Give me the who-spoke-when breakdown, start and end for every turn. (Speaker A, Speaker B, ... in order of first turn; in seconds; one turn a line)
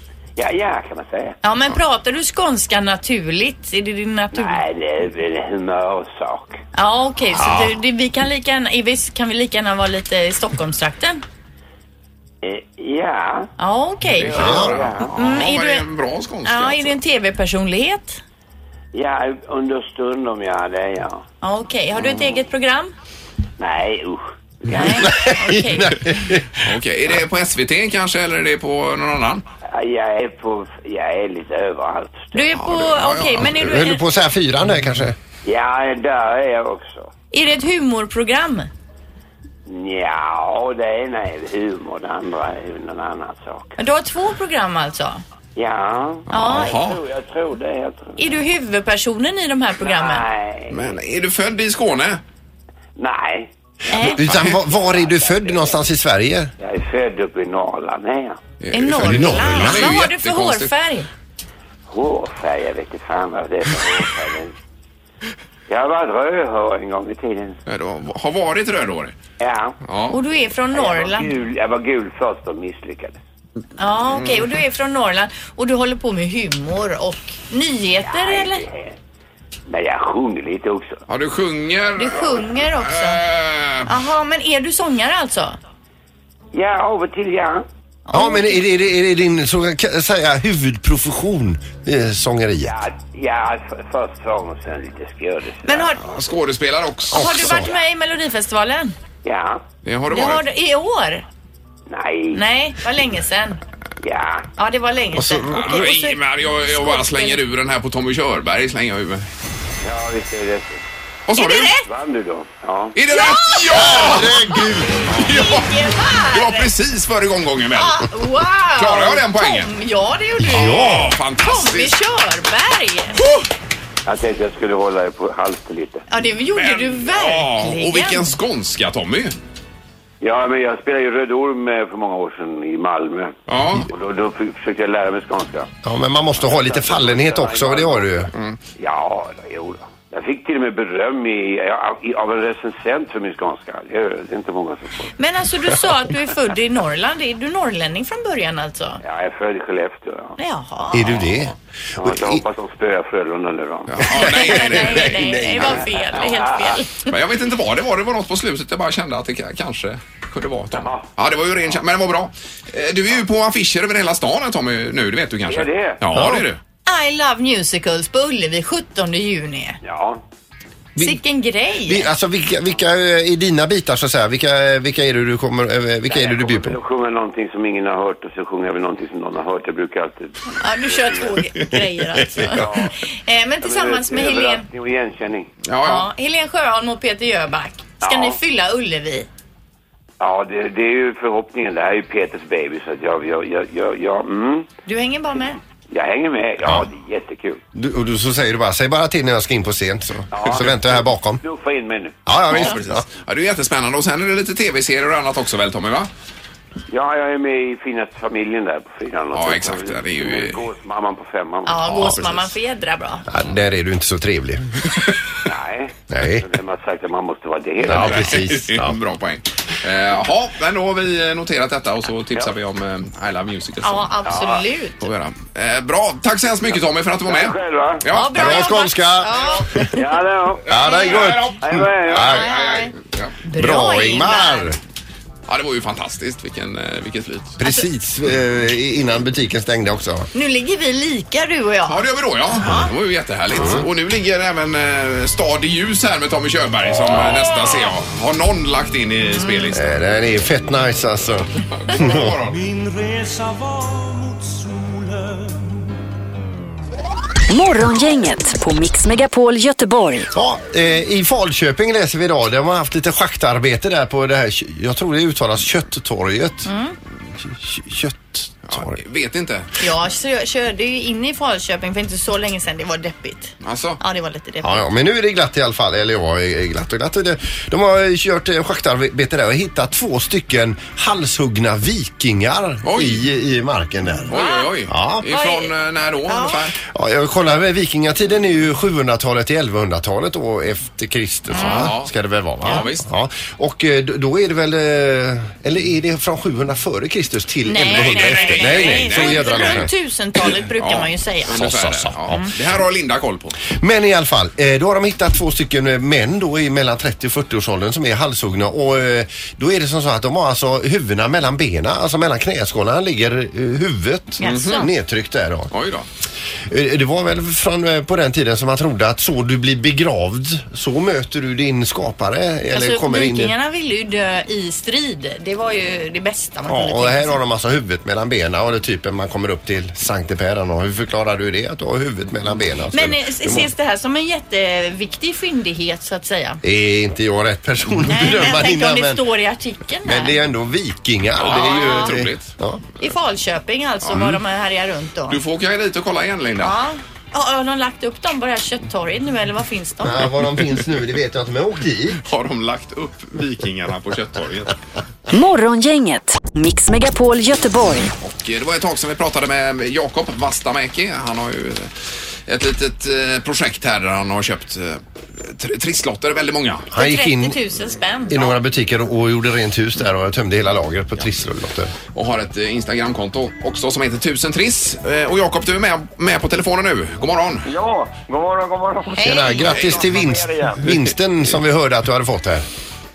Speaker A: 0.4-1.4
Speaker B: 1.4-4.6
Speaker A: 4.3-6.6
Speaker B: 6.7-11.2
Speaker C: 7.3-7.8
Speaker A: 12.4-13.5
Speaker B: 13.6-15.8
Speaker D: 14.2-17.0
Speaker A: 14.3-15.1
Speaker C: 14.4-14.8
Speaker B: 16.4-18.2
Speaker A: 18.9-21.2
Speaker B: 21.4-22.9
Speaker A: 21.9-22.4
Speaker A: 23.6-25.2
Speaker B: 24.7-26.1
Speaker C: 25.0-26.6
Speaker D: 26.5-29.4
Speaker A: 29.7-32.5
Speaker B: 32.3-34.0
Speaker D: 32.6-33.5
Speaker C: 33.4-35.1
Speaker A: 35.4-37.1
Speaker B: 37.3-38.7
Speaker A: 39.6-43.8
Speaker B: 43.8-45.2
Speaker A: 45.5-48.3
Speaker D: 46.3-47.0
Speaker B: 46.3-46.7
Speaker B: 48.2-50.2
Speaker A: 49.8-51.0
Speaker D: 50.7-52.2
Speaker A: 53.0-55.8
Speaker B: 53.9-54.2
Speaker C: 54.0-56.5
Speaker A: 56.6-58.4
Speaker D: 58.6-60.7
Speaker B: 58.7-61.1
Speaker C: 59.0-59.9
Speaker A: 61.9-64.5
Speaker A: 65.7-67.6
Speaker D: 67.7-69.1
Speaker A: 69.4-69.8
Speaker D: 69.8-70.2
Speaker B: 70.1-71.3
Speaker A: 70.7-73.2
Speaker B: 73.8-78.6
Speaker A: 78.0-79.0
Speaker A: 79.7-81.0
Speaker D: 81.1-83.9
Speaker B: 82.0-83.2
Speaker B: 83.8-85.6
Speaker A: 86.5-87.7
Speaker B: 88.1-88.6
Speaker C: 88.1-92.7
Speaker A: 92.6-96.0
Speaker B: 95.6-96.0
Speaker D: 96.0-97.6
Speaker C: 97.1-97.7
Speaker B: 97.1-98.9
Speaker A: 99.2-99.6
Speaker D: 99.8-100.4
Speaker B: 100.1-101.2
Speaker A: 101.9-102.4
Speaker B: 102.3-103.6
Speaker A: 104.0-104.5
Speaker B: 104.6-107.4
Speaker C: 105.1-105.8
Speaker D: 105.5-109.3
Speaker A: 109.8-110.8
Speaker D: 111.3-111.8
Speaker B: 111.3-111.8
Speaker A: 111.8-113.0
Speaker D: 112.9-114.3
Speaker B: 113.1-116.7
Speaker C: 113.7-115.3
Speaker D: 115.1-118.0
Speaker B: 117.7-123.2
Speaker D: 118.8-119.7
Speaker C: 120.4-121.2
Speaker D: 120.5-122.0
Speaker A: 124.0-126.0
Speaker B: 126.1-128.3
Speaker D: 126.5-129.3
Speaker A: 130.2-135.7
Speaker D: 133.5-133.9
Speaker C: 135.8-138.3
Speaker A: 136.3-145.1
Speaker D: 138.3-138.6
Speaker B: 145.2-149.0
Speaker A: 149.0-150.3
Speaker B: 150.4-151.2
Speaker C: 150.9-152.4
Speaker D: 151.2-151.5
Speaker A: 152.0-154.3
Speaker D: 153.9-155.2
Speaker C: 154.1-155.8
Speaker B: 154.2-157.1
Speaker A: 155.6-156.8
Speaker D: 157.1-166.6
Speaker A: 160.7-161.0
Speaker A: 165.5-166.0
Speaker C: 166.1-166.5
Speaker B: 166.8-169.8
Speaker A: 169.8-170.2
Speaker B: 170.9-172.1
Speaker C: 171.9-176.8
Speaker A: 176.1-181.4
Speaker B: 180.6-184.7
Speaker A: 182.4-182.9
Speaker A: 183.6-185.5
Speaker D: 185.6-186.1
Speaker B: 185.8-189.3
Speaker A: 188.0-188.4
Speaker A: 190.2-194.7
Speaker B: 194.9-195.6
Speaker A: 195.9-197.6
Speaker C: 197.7-201.4
Speaker A: 200.3-202.2
Speaker C: 202.2-203.0
Speaker D: 202.5-206.1
Speaker A: 206.9-212.1
Speaker D: 209.3-210.6
Speaker B: 211.7-213.2
Speaker D: 211.9-212.3
Speaker C: 213.3-214.9
Speaker A: 215.4-218.4
Speaker C: 216.1-216.5
Speaker C: 217.8-219.0
Speaker D: 217.8-224.1
Speaker B: 223.8-225.0
Speaker A: 224.2-224.6
Speaker D: 225.0-228.7
Speaker A: 227.2-228.0
Speaker B: 228.1-229.9
Speaker C: 228.3-230.0
Speaker A: 229.9-230.7
Speaker C: 230.7-232.5
Speaker D: 230.7-231.6
Speaker B: 230.8-231.3
Speaker A: 231.6-232.6
Speaker D: 232.1-233.3
Speaker B: 232.1-232.9
Speaker B: 233.4-234.7
Speaker C: 233.6-234.8
Speaker D: 235.5-237.6
Speaker C: 237.6-240.3
Speaker B: 240.3-242.9
Speaker D: 241.9-249.8
Speaker C: 243.5-243.9
Speaker B: 249.4-249.7
Speaker C: 249.7-252.4
Speaker D: 251.8-252.6
Speaker E: 252.7-254.9
Speaker F: 257.5-260.3
Speaker C: 260.3-266.7
Speaker B: 266.6-266.9
Speaker C: 267.2-269.0
Speaker D: 268.6-269.7
Speaker B: 269.8-274.8
Speaker D: 273.6-274.0
Speaker C: 274.6-284.3
Speaker D: 282.8-283.2
Speaker D: 284.3-286.8
Speaker B: 284.3-284.7
Speaker C: 284.9-285.3
Speaker B: 285.2-285.7
Speaker B: 286.3-286.6
Speaker C: 286.9-299.9
Speaker D: 291.5-292.1
Speaker B: 291.6-291.9
Speaker D: 292.6-293.1
Speaker B: 297.7-301.6
Speaker D: 297.9-299.9
Speaker D: 300.8-303.6
Speaker C: 301.5-302.5
Speaker C: 303.7-315.7
Speaker B: 314.4-314.9
Speaker D: 314.4-314.9
Speaker D: 315.7-316.1
Speaker C: 316.7-323.5
Speaker B: 322.7-327.4
Speaker C: 326.6-333.7
Speaker B: 332.9-336.6
Speaker C: 336.6-339.2
Speaker B: 338.1-340.4
Speaker C: 340.0-342.8
Speaker D: 341.4-342.5
Speaker B: 341.5-342.1
Speaker B: 343.0-345.4
Speaker D: 344.0-344.4
Speaker D: 345.3-346.8
Speaker B: 346.6-350.2
Speaker C: 350.0-352.2
Speaker D: 350.2-350.9
Speaker D: 352.2-354.8
Speaker F: 355.3-358.1
Speaker D: 358.2-366.9
Speaker C: 366.9-367.6
Speaker B: 367.0-368.6
Speaker C: 368.3-371.9
Speaker D: 372.1-377.6
Speaker G: 377.6-380.8
Speaker B: 379.1-379.8
Speaker C: 379.2-382.6
Speaker D: 379.6-380.2